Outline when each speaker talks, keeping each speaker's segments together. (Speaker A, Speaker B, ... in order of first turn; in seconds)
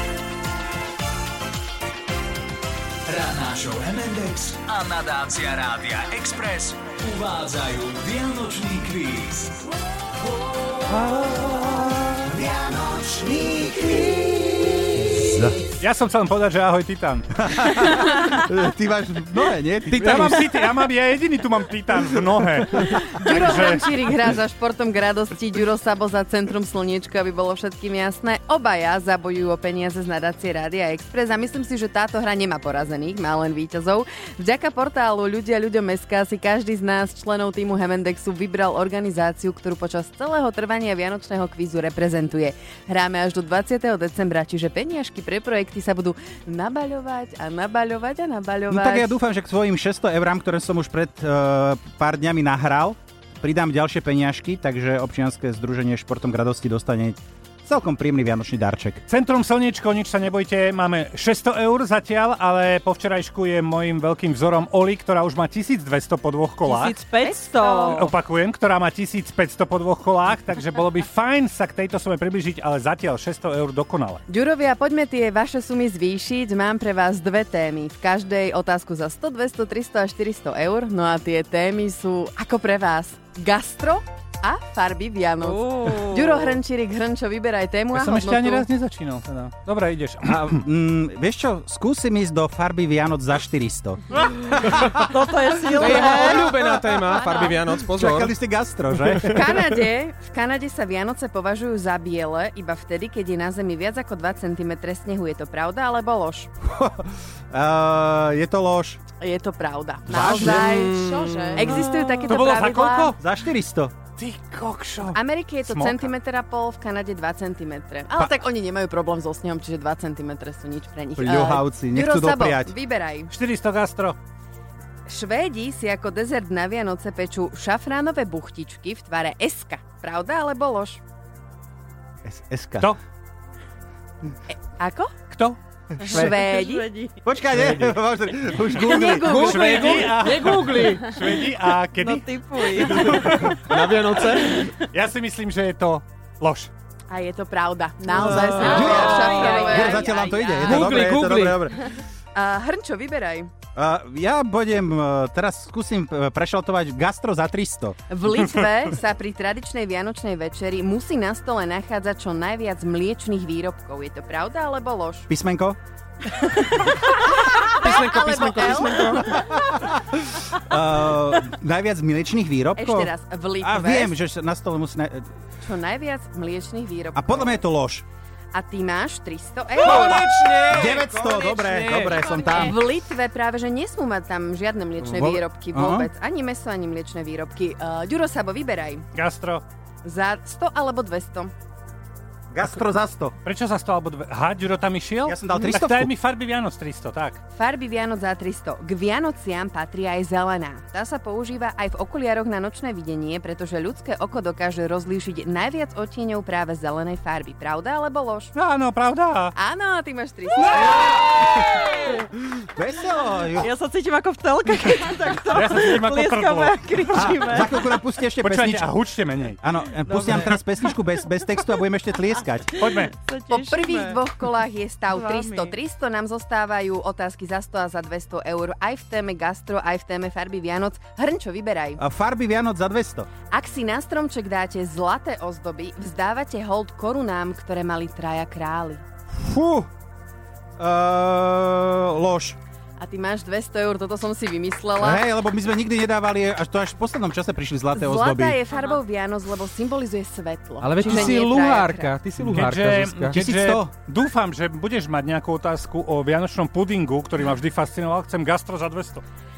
Speaker A: 3.0-9.6, 12.3-14.2
Speaker B: 11.1-11.5, 15.8-17.3, 19.9-23.9, 59.1-67.0, 67.8-74.2, 87.9-90.6, 111.6-113.2, 114.2-116.1, 123.3-124.2, 135.3-135.6, 138.9-146.7, 148.3-149.6, 189.1-189.6, 193.4-197.4, 208.5-209.5, 215.5-217.7, 218.4-219.6, 222.8-223.2, 252.4-259.2
Speaker C: 15.0-15.6, 17.4-20.5, 48.7-59.0, 90.2-94.0, 94.7-94.9, 97.8-99.7, 106.6-109.0, 110.1-110.8, 113.2-113.9, 121.2-122.7, 132.2-132.9, 136.0-136.4, 137.2-139.6, 148.1-151.9, 153.7-157.9, 165.3-165.8, 168.6-175.3, 177.1-178.0, 180.7-182.8, 185.0-186.1, 192.5-193.3, 195.2-196.1, 212.7-213.7, 217.1-218.9, 219.6-222.8, 232.0-233.3, 239.3-239.9, 240.8-242.6, 245.0-248.6, 253.3-253.9
Speaker D: 22.9-49.1, 67.2-68.0, 74.3-88.7, 95.8-96.2, 97.2-97.5, 99.2-106.5, 109.2-111.0, 111.5-113.2, 115.0-123.3, 125.1-131.0, 134.8-135.1, 136.0-136.9, 138.7-140.2, 147.1-150.8, 152.3-153.5, 158.1-165.3, 166.4-169.6, 172.8-174.2, 175.6-177.6, 178.5-180.3, 182.4-189.1, 190.0-191.5, 197.5-208.5, 209.5-211.1, 223.5-232.0, 233.5-239.0, 243.0-245.3, 247.9-252.1
Speaker E: 66.6-68.1, 85.4-86.5, 94.5-96.7, 110.6-112.3, 136.1-137.2, 141.9-143.6, 144.3-144.8, 148.6-150.0, 182.1-182.7, 210.6-212.3, 213.5-217.9, 220.1-220.6, 223.1-224.2, 225.1-225.8
Speaker F: 95.7-98.3, 110.1-111.7, 137.5-137.9, 139.2-141.1, 143.6-144.6, 148.3-149.6, 150.6-151.6, 167.8-169.4, 179.8-182.3, 250.8-253.4